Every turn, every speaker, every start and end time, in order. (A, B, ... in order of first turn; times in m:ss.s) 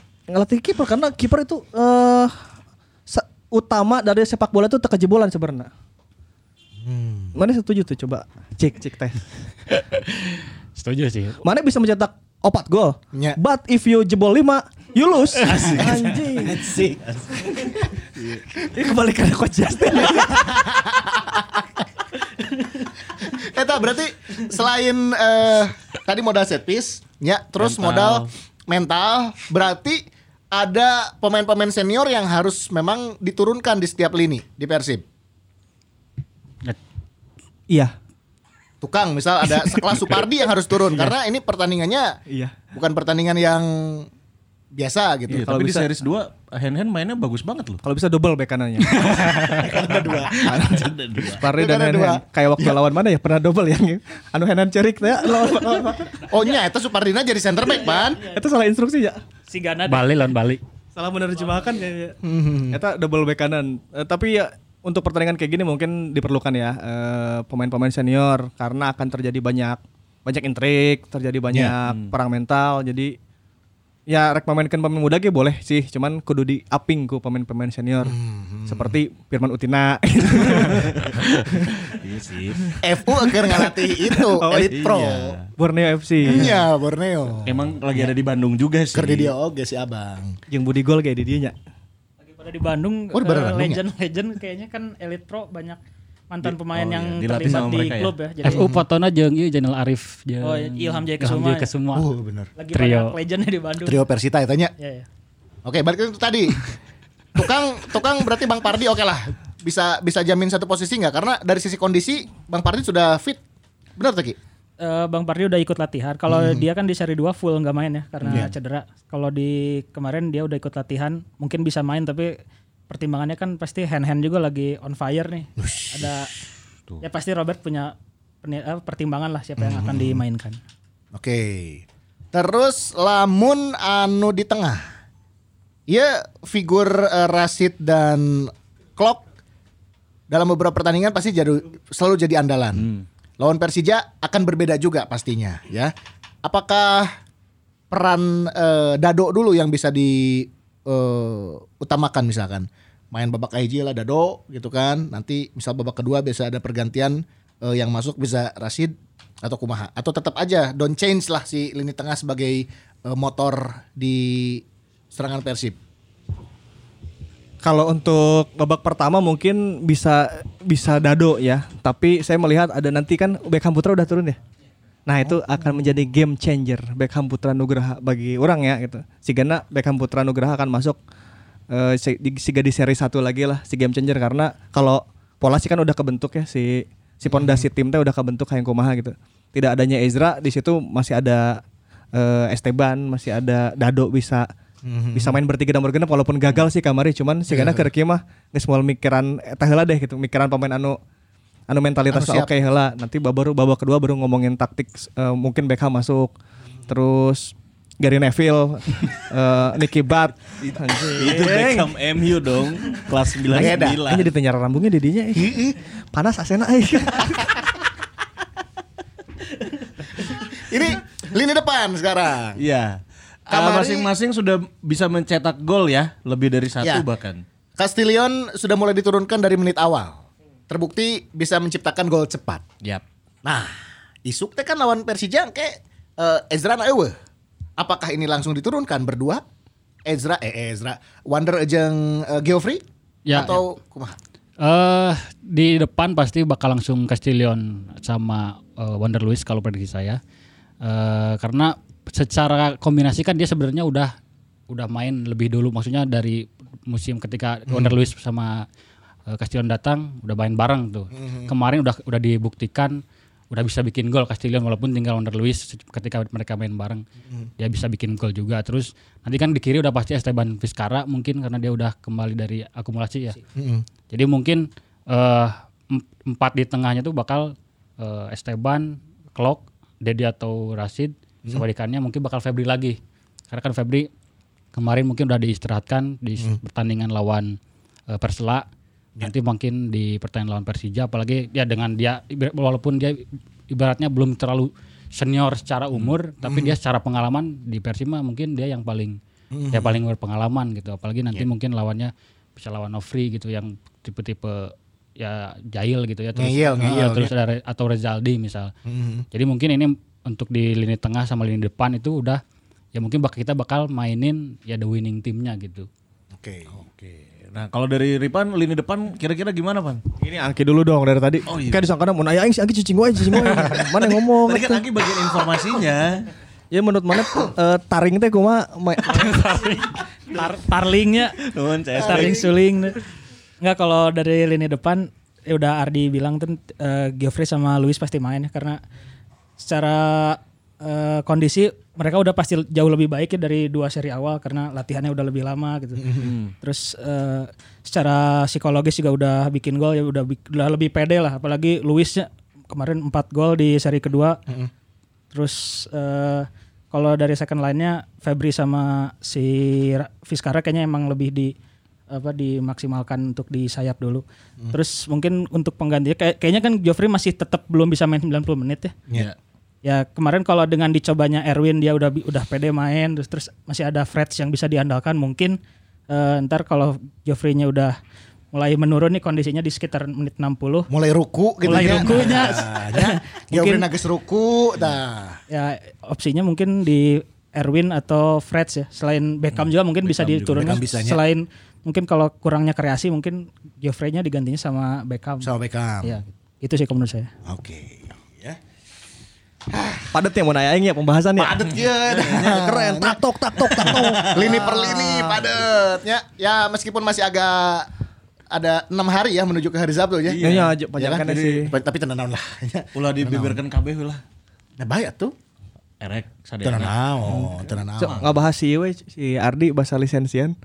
0:00.3-0:02.3 A
0:03.1-0:05.7 A
0:06.8-0:07.3 B
0:07.3-0:09.3 A
0:09.7-0:11.4 C
0:11.4-0:16.7 A
0:15.4-0:16.2 D
0:15.8-0:17.9 B
0:18.6-0:20.7 A
0:20.4-0:21.8 B
0:23.2-0:35.0 B
0:27.6-0:28.3 D
0:38.8-0:42.2 B
0:39.4-0:40.2 A
0:40.9-0:41.1 A
0:42.3-0:42.5 A
0:42.7-0:44.1 B
0:44.7-0:45.5 B
0:45.3-0:47.8 D
0:45.4-0:45.8 A
0:47.8-0:49.2 A
0:48.9-0:49.6 C
0:49.5-0:50.6 B
0:50.3-0:51.4 D
0:50.3-0:56.3 A
0:51.4-0:52.7 B
0:56.3-0:58.2 B
0:58.2-0:59.2 A
0:59.5-1:00.1 E
0:59.8-1:00.6 C
1:01.0-1:02.2 A
1:02.2-1:02.8 B
1:02.7-1:13.2 A
1:11.8-1:12.1 D
1:14.1-1:21.8 A
1:18.1-1:18.9 B
1:22.0-1:22.7 D
1:22.8-1:25.3 B
1:23.3-1:24.7 A
1:24.7-1:25.5 D
1:25.6-1:26.6 A
1:26.2-1:27.7 B
1:27.4-1:29.3 D
1:29.0-1:30.4 B
1:30.5-1:31.5 A
1:32.2-1:35.8 E
1:33.1-1:33.8 B
1:36.3-1:38.7 E
1:36.4-1:38.1 D
1:38.4-1:42.0 C
1:40.4-1:41.7 E
1:41.9-1:42.5 B
1:42.6-1:44.0 E
1:42.7-1:43.1 C
1:43.8-1:44.7 B
1:44.8-1:45.0 E
1:45.6-1:46.8 B
1:47.4-1:53.4 B
1:54.0-1:54.4 B
1:54.8-2:02.4 E
1:56.3-1:56.6 B
1:58.2-1:58.5 B
2:02.9-2:06.3 E
2:05.6-2:06.1 B
2:07.0-2:10.6 E
2:09.6-2:10.2 B
2:11.1-2:14.8 B
2:15.9-2:19.2 B
2:20.3-2:25.9 B
2:22.8-2:23.0 D
2:26.4-2:27.1 B
2:27.9-2:45.8 B
2:47.6-2:54.4 A
2:55.0-3:01.0 A
3:01.7-3:11.6 A
3:07.3-3:07.6 B
3:12.1-3:14.5 A
3:14.8-3:15.4 B
3:15.1-3:21.0 A
3:17.5-3:17.9 B
3:21.7-3:26.3 A
3:22.1-3:22.5 B
3:26.9-3:31.9 A
3:30.6-3:34.3 D
3:33.5-3:37.7 A
3:33.5-3:34.0 B
3:35.4-3:35.8 B
3:40.5-3:42.6 B
3:42.6-3:47.4 D
3:43.5-3:44.1 B
3:47.8-3:52.6 B
3:53.4-3:53.7 B
3:54.2-3:57.1 B
3:57.8-3:59.4 B
4:00.0-4:04.2 B
4:03.2-4:03.6 C
4:04.6-4:10.2 C
4:10.8-4:14.1 C
4:14.7-4:18.6 C
4:19.3-4:23.0 C
4:21.1-4:21.5 B
4:23.5-4:27.0 C
4:27.6-4:33.4 C
4:33.6-4:33.8 B
4:34.1-4:43.0 C
4:43.5-4:44.1 C
4:44.7-4:47.5 C
4:48.1-4:48.6 C
4:49.2-4:59.2 C
4:56.4-4:56.7 B
4:59.5-4:59.9 B
4:59.7-5:08.7 C
5:06.4-5:07.3 B
5:08.9-5:09.2 B
5:09.3-5:12.4 C
5:12.9-5:15.9 C
5:16.4-5:16.7 B
5:16.8-5:20.0 D
5:20.2-5:24.8 A
5:21.5-5:21.8 D
5:24.0-5:26.3 D
5:26.7-5:29.4 A
5:29.2-5:29.9 C
5:30.3-5:31.4 E
5:31.4-5:32.5 D
5:32.0-5:33.0 E
5:32.0-5:32.5 B
5:33.6-5:38.8 E
5:39.6-5:54.4 E
5:46.2-5:46.5 D
5:55.3-6:01.5 E
6:02.1-6:09.0 E
6:09.8-6:15.6 E
6:16.1-6:17.9 E
6:18.5-6:20.9 E
6:20.9-6:25.4 B
6:21.6-6:23.9 E
6:25.5-6:35.5 E
6:29.6-6:30.8 D
6:30.5-6:31.2 B
6:35.4-6:36.2 B
6:36.0-6:37.3 E
6:37.5-6:38.6 B
6:39.7-6:40.1 B
6:40.1-6:45.5 A
6:41.4-6:47.9 B
6:42.2-6:42.6 D
6:43.7-6:44.7 D
6:48.5-6:50.4 B
6:50.2-6:51.7 D
6:50.4-6:51.7 A
6:51.0-6:53.6 B
6:52.9-6:54.2 D
6:54.8-6:55.3 B
6:56.0-6:58.3 D
6:56.6-6:58.2 B
6:58.0-7:00.6 A